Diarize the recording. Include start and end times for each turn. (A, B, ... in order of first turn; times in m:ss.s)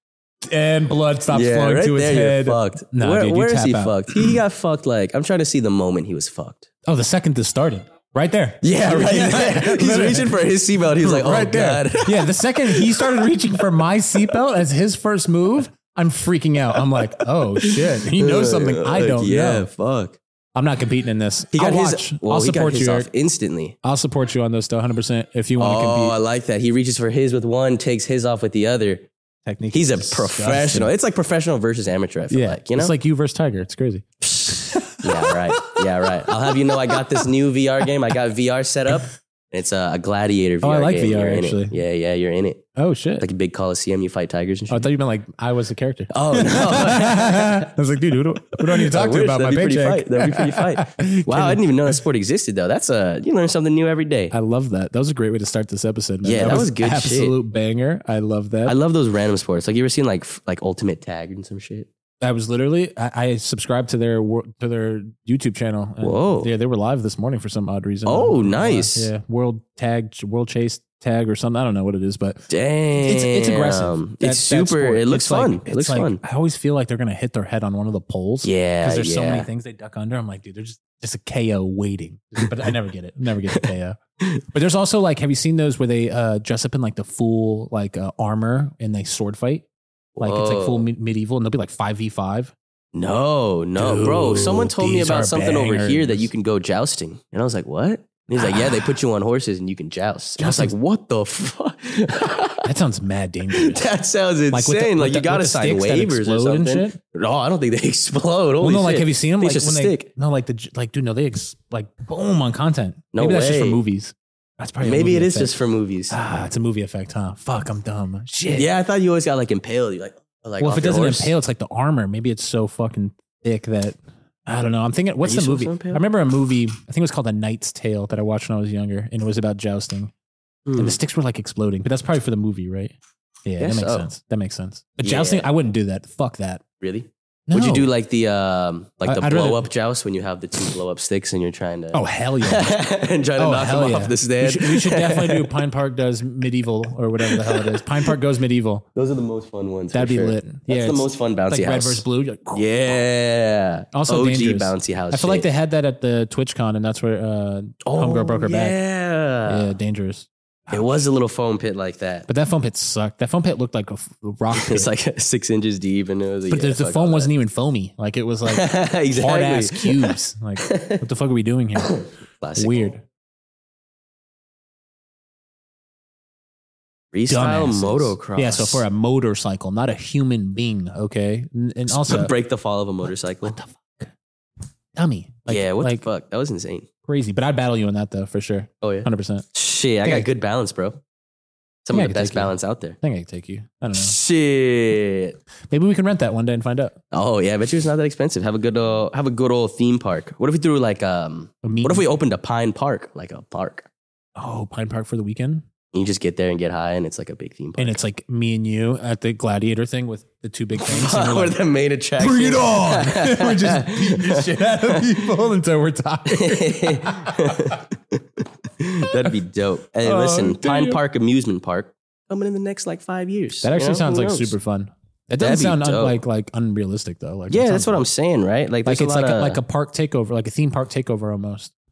0:00.4-0:04.3 A
0:01.3-0:06.7 B
0:06.8-0:10.4 A
0:08.6-0:13.3 B
0:11.0-0:19.7 A
0:17.4-0:20.2 B
0:20.5-0:23.1 A
0:21.5-0:23.8 B
0:23.8-0:26.2 A
0:25.6-0:29.1 B
0:29.4-0:30.9 A
0:29.7-0:32.9 B
0:32.3-0:35.8 A
0:34.5-0:42.6 B
0:36.5-0:36.8 A
0:40.6-0:41.8 A
0:42.8-0:43.3 A
0:43.2-0:44.9 B
0:44.7-0:51.6 A
0:46.1-0:47.7 B
0:48.6-0:54.3 B
0:54.3-0:58.8 A
0:56.2-0:57.4 B
0:58.6-1:01.9 B
1:02.2-1:24.0 A
1:06.0-1:06.5 B
1:08.0-1:09.1 B
1:12.5-1:16.2 B
1:18.4-1:19.5 B
1:24.5-1:29.6 A
1:30.2-1:30.9 B
1:30.2-1:32.5 A
1:32.9-1:42.6 B
1:33.8-1:36.3 A
1:38.4-1:38.9 A
1:40.4-1:40.7 A
1:42.6-1:43.8 A
1:43.6-1:50.1 B
1:44.5-1:47.0 A
1:48.6-1:55.5 A
1:53.1-1:53.8 B
1:54.8-1:56.1 B
1:56.1-1:58.7 A
1:58.5-2:01.3 B
2:00.6-2:10.1 A
2:05.2-2:06.0 B
2:10.6-2:11.0 B
2:10.8-2:12.9 A
2:13.4-2:16.6 A
2:13.6-2:14.1 B
2:15.0-2:15.5 B
2:16.8-2:25.5 B
2:17.5-2:17.9 A
2:19.0-2:19.7 A
2:21.9-2:22.7 A
2:23.4-2:28.9 A
2:27.2-2:28.1 B
2:28.9-2:35.4 B
2:29.9-2:32.7 A
2:33.9-2:38.8 A
2:37.8-2:39.7 B
2:39.4-2:40.9 A
2:40.7-2:42.3 B
2:42.3-2:44.9 A
2:44.5-2:47.3 B
2:46.5-2:52.0 A
2:48.4-2:51.0 B
2:51.9-2:52.9 B
2:52.6-2:53.0 A
2:57.1-2:58.8 B
2:57.3-3:02.3 A
3:01.9-3:03.6 B
3:03.4-3:04.1 A
3:05.0-3:06.0 A
3:05.5-3:06.9 B
3:07.0-3:09.4 A
3:08.8-3:11.0 B
3:11.8-3:13.0 B
3:11.9-3:14.2 A
3:13.9-3:15.4 B
3:15.7-3:17.0 A
3:17.1-3:23.9 B
3:21.6-3:22.0 A
3:24.4-3:25.6 A
3:25.9-3:28.0 B
3:27.8-3:31.6 A
3:30.8-3:35.2 B
3:32.2-3:37.6 A
3:36.3-3:44.6 B
3:40.0-3:41.0 A
3:43.6-3:48.1 A
3:45.4-3:46.2 B
3:47.5-3:49.6 B
3:48.8-3:51.7 A